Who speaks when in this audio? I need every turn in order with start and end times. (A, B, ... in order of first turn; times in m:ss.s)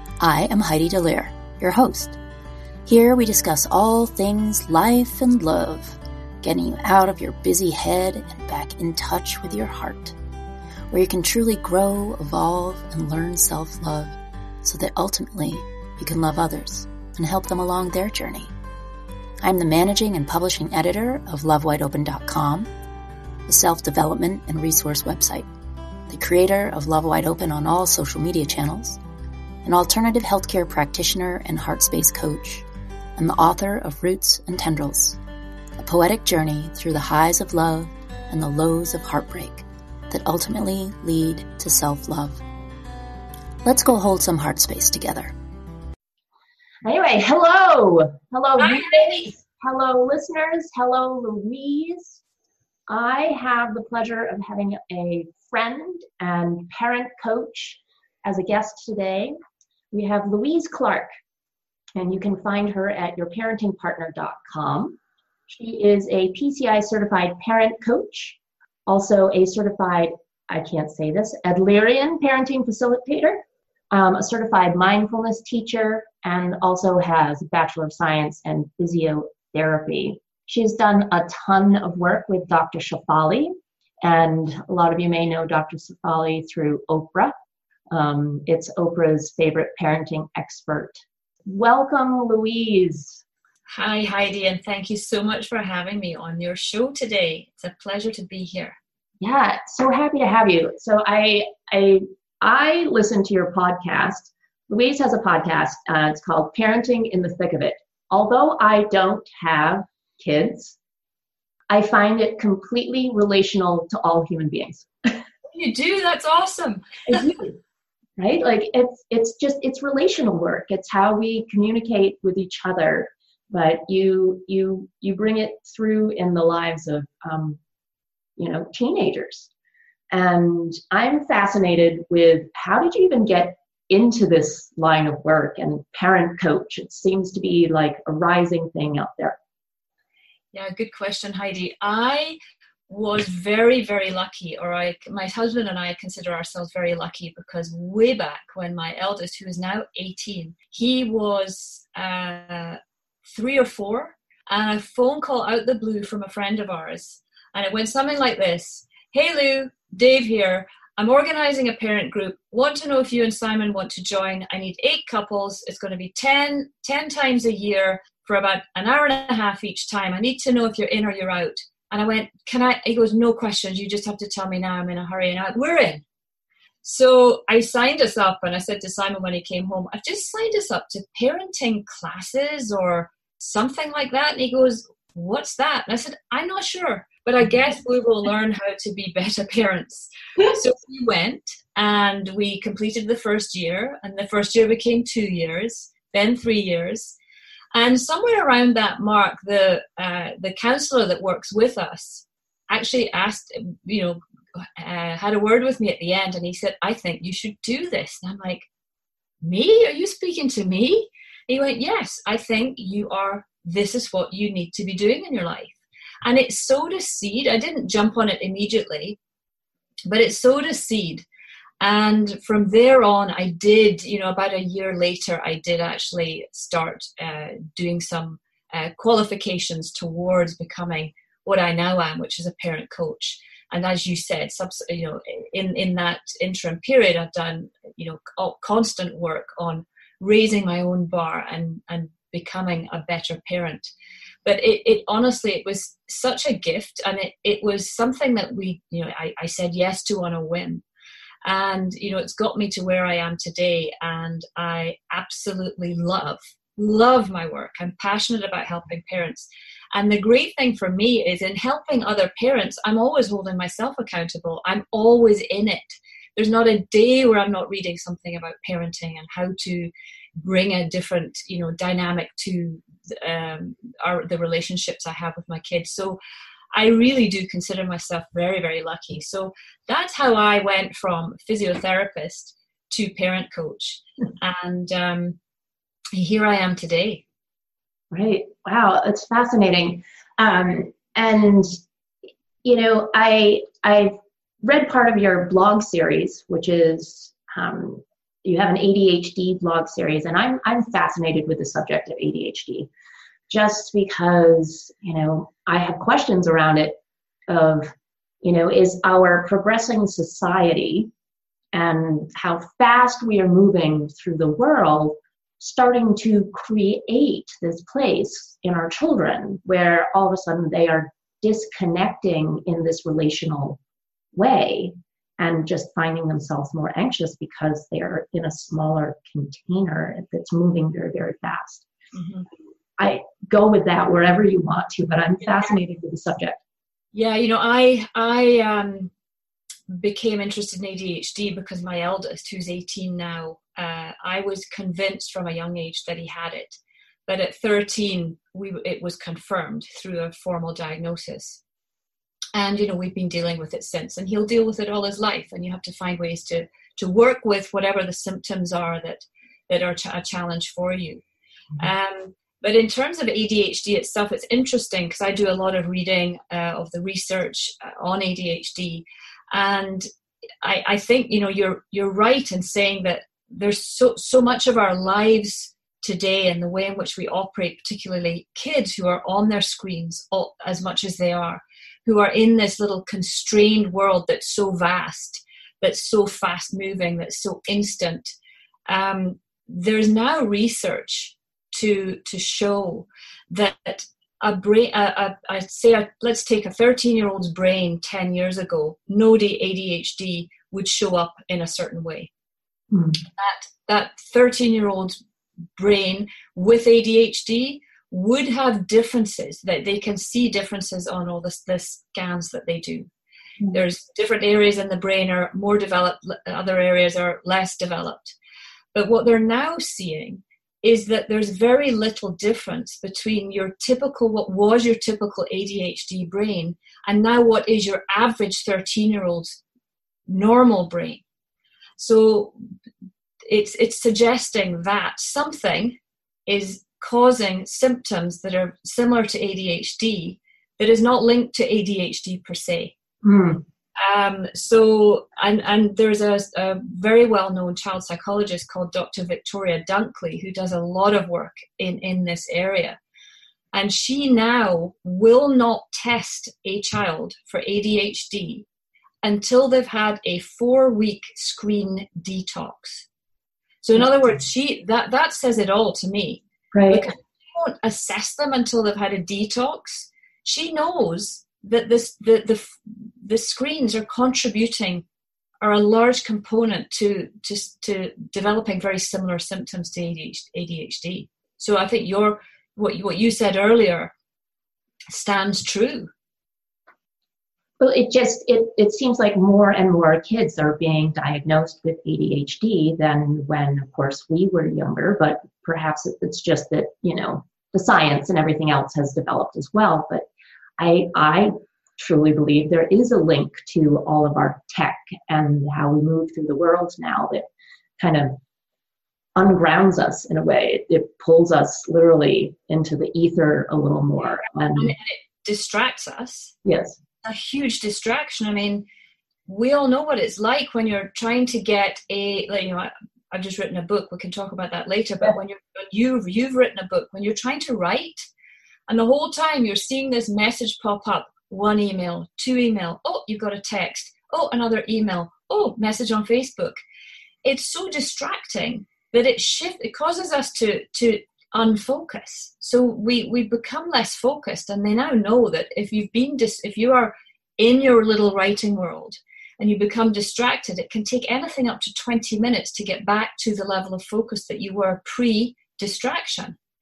0:00.2-0:02.2 A
0:02.9-0:10.2 A
0:10.9-0:18.5 A
0:19.4-0:22.7 A
0:23.5-0:25.5 A
0:26.1-0:29.0 A
0:29.6-0:32.6 A
0:33.2-0:35.2 A
0:35.8-0:42.4 A
0:43.6-0:45.3 A
0:46.8-0:52.2 B
0:48.6-0:49.3 C
0:52.9-0:59.3 B
0:59.9-1:01.1 B
1:02.0-1:27.3 B
1:27.9-1:33.2 B
1:33.7-1:38.8 C
1:39.2-1:50.8 B
1:51.7-1:55.2 B
1:55.5-1:57.3 C
1:57.1-1:57.6 B
1:58.2-2:07.6 B
2:08.4-2:09.5 B
2:10.1-2:19.4 B
2:20.5-2:56.0 C
2:56.8-3:17.2 C
3:17.7-3:28.7 C
3:29.4-3:39.2 C
3:40.1-3:41.3 C
3:41.8-4:03.9 C
4:04.4-4:10.8 C
4:11.4-4:36.2 C
4:36.7-4:45.4 C
4:46.1-4:47.2 C
4:48.1-4:51.7 B
4:52.6-5:02.9 B
5:03.5-5:07.0 B
5:07.5-5:11.1 B
5:11.7-5:23.8 B
5:24.3-5:31.9 B
5:32.1-5:32.5 C
5:33.0-5:36.6 B
5:37.1-5:39.1 C
5:39.9-5:51.6 C
5:52.6-6:01.2 C
6:01.8-6:10.1 C
6:10.6-6:28.4 C
6:28.9-6:42.3 C
6:42.9-6:43.2 B
6:43.4-6:45.2 C
6:45.8-6:53.1 C
6:53.7-6:58.4 C
6:58.9-7:09.6 C
7:10.3-7:11.2 C
7:12.0-7:12.6 C
7:13.5-7:23.0 C
7:23.2-7:23.6 B
7:24.0-7:33.0 C
7:33.7-7:38.6 C
7:39.2-7:43.1 C
7:43.8-7:55.0 C
7:46.7-7:47.1 B
7:55.6-8:04.1 C
8:05.1-8:06.1 C
8:07.8-8:20.3 B
8:20.8-8:27.5 B
8:28.0-8:28.4 B
8:29.4-8:34.9 B
8:34.8-8:36.6 C
8:36.6-8:37.0 B
8:37.2-8:38.9 C
8:39.5-8:48.3 C
8:48.9-8:56.8 C
8:57.4-9:16.6 C